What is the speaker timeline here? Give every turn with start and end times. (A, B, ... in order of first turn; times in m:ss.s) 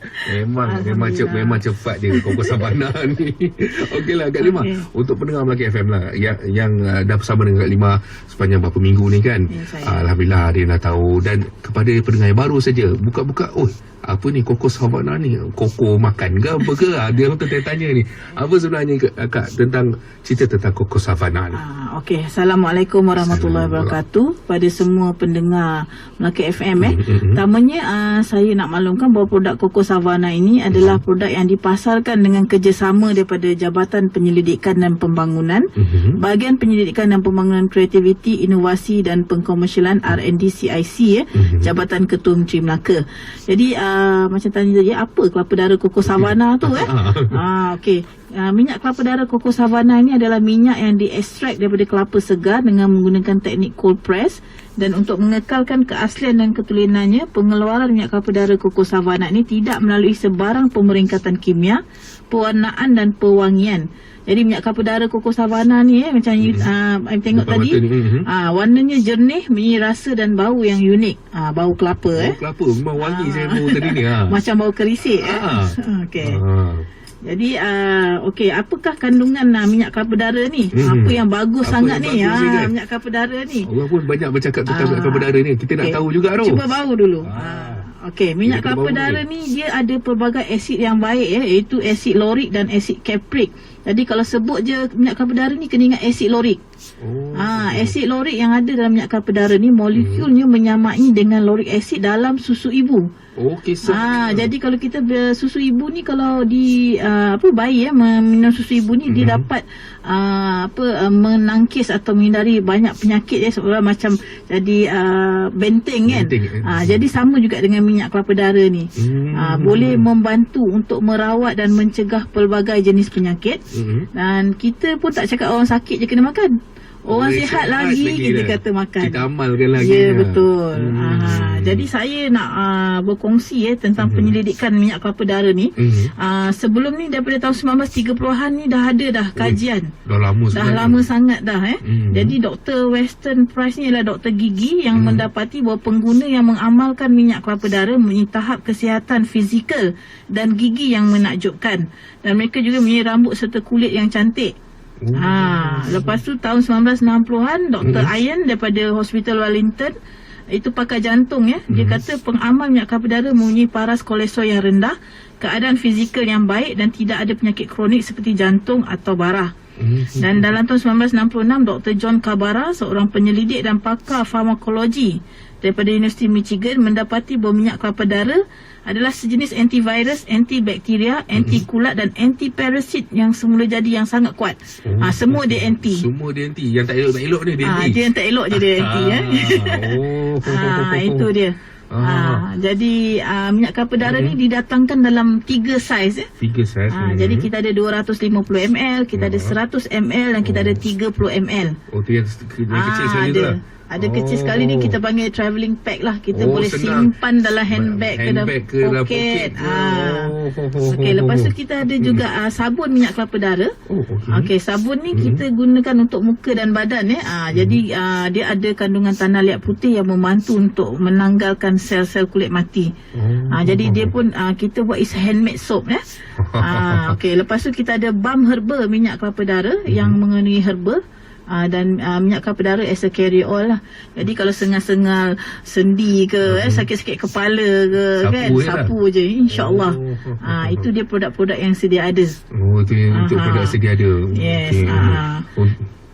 0:00.2-0:21.6 A
0:00.6-0:02.7 B
0:04.4-0:04.9 B
0:09.5-0:10.0 B
0:21.5-1:12.4 B
0:23.2-0:24.0 A
0:26.8-0:27.4 A
0:30.7-0:31.0 A
0:35.8-0:36.2 A
0:41.3-0:41.7 A
0:46.1-0:47.4 A
1:06.4-1:06.7 A
1:07.3-1:08.3 A
1:12.1-1:14.4 A
1:13.0-1:16.4 B
1:15.1-1:16.8 A
1:17.3-1:23.7 B
1:20.8-1:22.7 A
1:23.6-1:26.6 A
1:24.7-1:25.3 B
1:25.8-1:36.6 B
1:27.2-1:27.8 A
1:28.4-1:29.2 A
1:37.0-1:38.0 A
1:37.4-1:43.0 B
1:40.0-1:40.3 A
1:43.4-1:44.5 A
1:43.8-2:03.6 B
1:49.1-1:49.4 A
1:56.1-1:57.0 A
1:59.0-2:00.0 A
2:03.7-2:04.1 A
2:04.2-2:06.5 B
2:07.1-2:19.9 B
2:07.1-2:11.9 A
2:14.0-2:14.4 A
2:15.8-2:16.1 A
2:19.4-2:21.1 A
2:20.5-2:34.5 B
2:21.8-2:22.4 A
2:25.0-2:25.2 A
2:35.0-2:36.2 A
2:35.2-2:39.9 B
2:37.8-2:38.1 A
2:40.5-2:49.5 B
2:41.7-2:42.0 A
2:49.8-2:50.5 A
2:50.2-3:06.0 B
3:01.4-3:01.6 A
3:04.8-3:08.0 A
3:07.6-3:16.3 B
3:08.5-3:11.3 A
3:11.9-3:12.4 A
3:14.0-3:14.4 A
3:16.4-3:17.5 A
3:16.9-3:21.7 B
3:19.2-3:19.6 A
3:20.4-3:20.8 A
3:21.9-3:25.0 A
3:22.7-3:30.3 B
3:26.3-3:27.1 A
3:27.7-3:32.2 A
3:30.9-3:33.7 B
3:33.9-3:34.5 A
3:34.3-3:42.9 B
3:35.1-3:35.4 A
3:37.5-3:37.8 A
3:43.2-3:44.1 A
3:43.5-3:46.0 B
3:46.4-3:47.2 A
3:46.6-3:51.0 B
3:49.9-3:50.2 A
3:51.5-4:02.4 B
3:56.4-3:56.9 A
3:58.2-3:58.9 A
3:59.5-4:00.9 A
4:02.5-4:05.9 A
4:03.1-4:03.8 B
4:04.3-4:05.4 B